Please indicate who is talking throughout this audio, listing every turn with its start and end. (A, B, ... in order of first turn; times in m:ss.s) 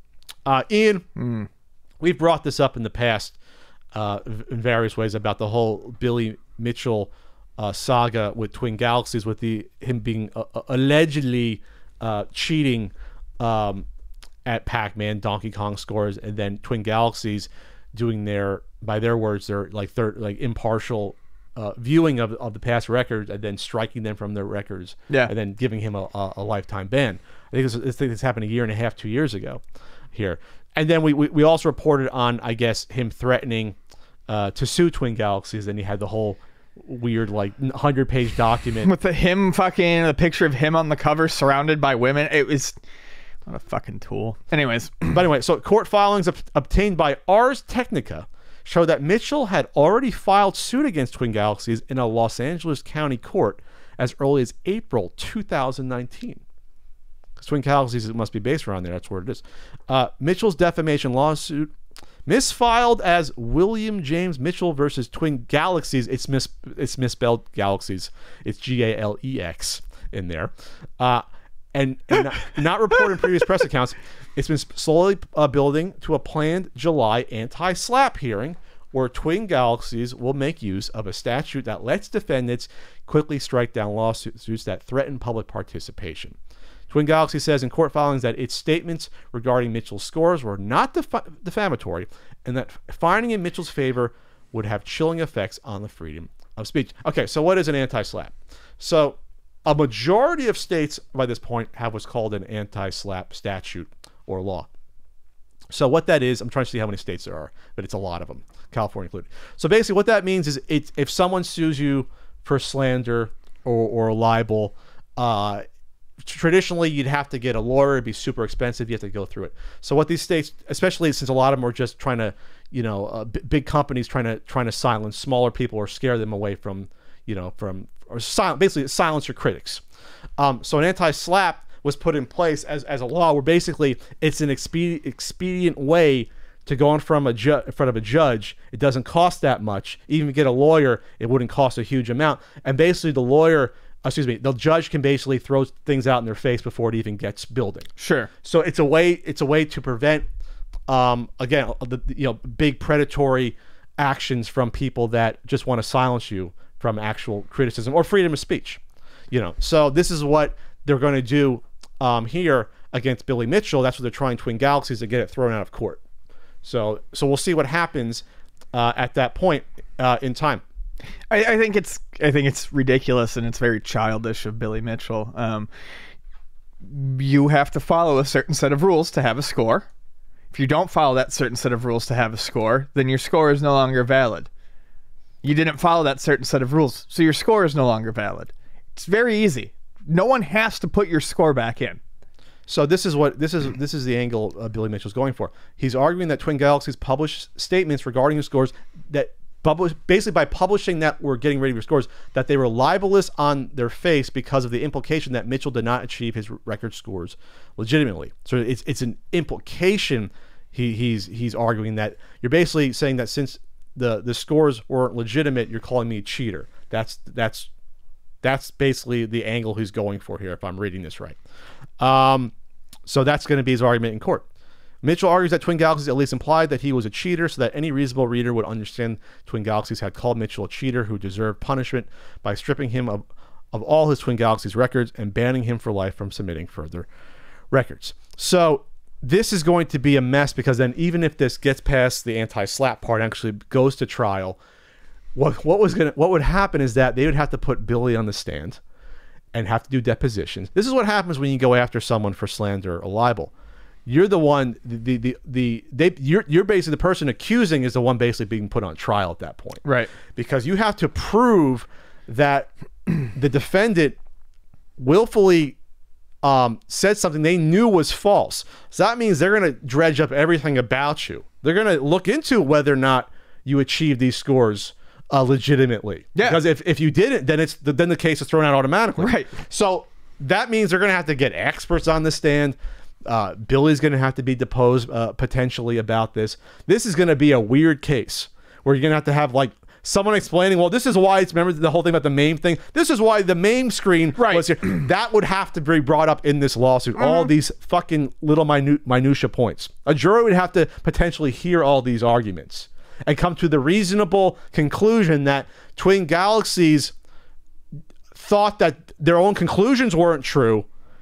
0:00.4-0:01.1 A
0:01.2-0:01.5 B
0:02.0-0:03.4 A
0:03.9-0:13.8 A
0:14.4-0:29.6 A
0:30.1-0:33.8 A
0:34.3-0:38.9 A
0:38.8-0:42.8 B
0:43.4-0:45.2 B
0:45.1-0:56.4 A
0:57.4-1:01.7 A
1:02.2-1:11.2 A
1:11.7-1:26.4 A
1:26.9-1:44.7 A
1:45.7-1:55.6 A
1:56.2-2:09.8 A
2:10.4-2:27.9 A
2:28.0-2:28.3 B
2:28.4-2:30.2 A
2:30.9-2:46.0 A
2:46.6-2:50.6 A
2:51.3-2:55.7 B
2:56.8-2:59.9 B
3:00.5-3:04.5 B
3:05.4-3:12.0 B
3:12.7-3:37.7 A
3:38.4-3:41.4 A
3:42.0-3:42.5 A
3:43.0-3:44.4 A
3:45.0-3:57.1 A
3:57.7-4:04.6 A
4:05.3-4:08.8 A
4:09.5-4:13.5 A
4:14.0-4:19.8 A
4:19.8-4:20.1 B
4:20.3-4:22.7 A
4:23.2-4:24.2 A
4:25.0-4:25.8 A
4:26.4-5:07.1 A
4:36.3-4:36.6 B
4:39.2-4:39.5 B
4:54.4-4:54.7 B
4:57.2-4:57.5 B
5:08.3-5:10.9 A